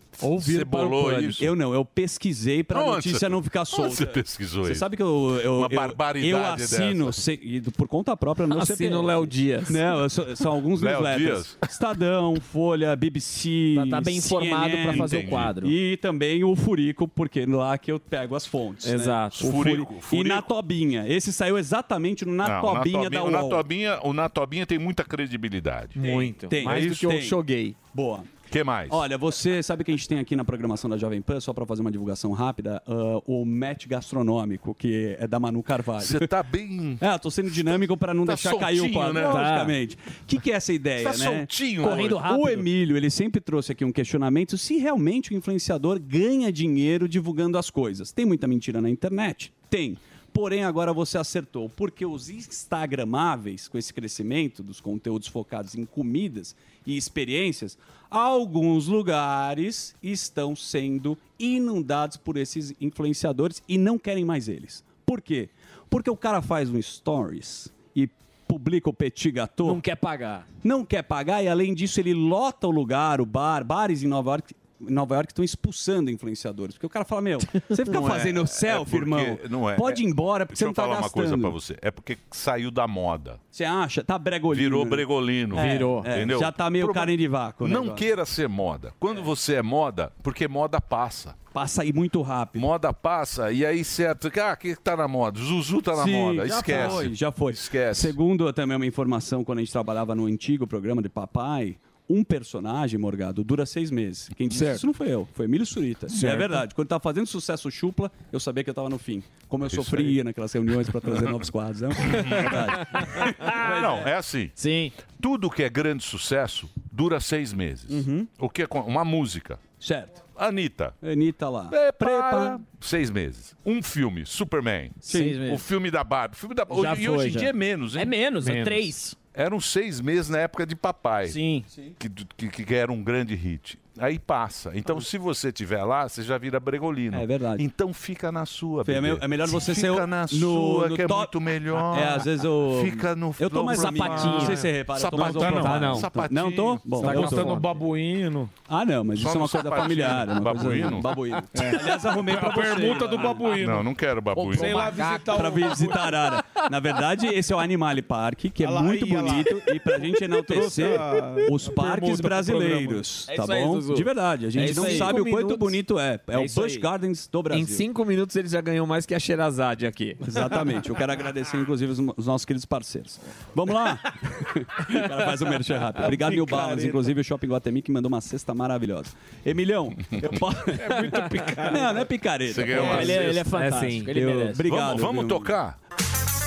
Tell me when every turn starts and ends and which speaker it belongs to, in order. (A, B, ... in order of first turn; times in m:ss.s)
0:00.2-0:01.5 A
0:00.2-0:01.3 B
0:00.5-0:23.6 C
0:02.7-0:07.2 A
0:08.5-0:10.0 B
0:10.8-0:11.7 A
0:13.7-0:15.7 D
0:14.9-0:15.6 A
0:18.8-0:19.7 B
0:19.4-0:20.5 A
0:22.4-0:26.9 A
0:26.0-0:27.8 B
0:26.5-0:28.3 C
0:28.5-0:29.0 A
0:28.9-0:36.3 C
0:36.0-0:39.6 A
0:37.0-1:09.8 C
0:39.2-0:39.7 D
0:41.0-0:42.3 A
0:41.8-0:42.7 D
1:09.6-1:10.5 D
1:10.6-1:21.6 C
1:17.9-1:23.4 A
1:23.5-1:28.1 C
1:24.5-1:31.4 A
1:25.5-1:26.1 B
1:31.5-1:32.7 C
1:32.6-1:38.1 A
1:35.9-1:54.1 C
1:49.7-1:50.2 A
1:52.0-1:54.6 A
1:54.6-1:54.9 D
1:55.2-1:59.6 A
1:57.9-1:58.3 C
1:59.8-2:00.2 C
2:00.3-2:01.0 A
2:01.0-2:02.6 C
2:01.7-2:08.2 A
2:05.0-2:05.6 D
2:05.1-2:05.4 C
2:06.7-2:09.2 D
2:08.4-2:08.9 B
2:09.3-2:11.4 A
2:11.2-2:11.7 D
2:12.0-2:27.3 A
2:17.1-2:17.7 C
2:18.8-2:21.3 C
2:21.8-2:27.7 C
2:23.8-2:24.6 D
2:24.4-2:25.9 E
2:25.6-2:26.0 B
2:27.0-2:28.5 E
2:27.0-2:27.6 D
2:28.7-2:33.6 C
2:29.2-2:31.2 A
2:31.5-2:33.9 E
2:33.5-2:35.0 A
2:34.4-2:35.4 D
2:34.5-2:36.2 E
2:35.3-2:47.9 C
2:38.6-2:43.0 E
2:43.3-2:45.2 D
2:44.6-2:45.8 B
2:46.4-2:46.9 D
2:47.5-2:50.6 B
2:50.2-3:03.4 C
2:56.0-2:57.1 E
3:00.7-3:02.1 E
3:02.5-3:03.5 A
3:02.7-3:04.6 D
3:02.7-3:04.1 B
3:04.0-3:05.6 C
3:04.6-3:05.8 A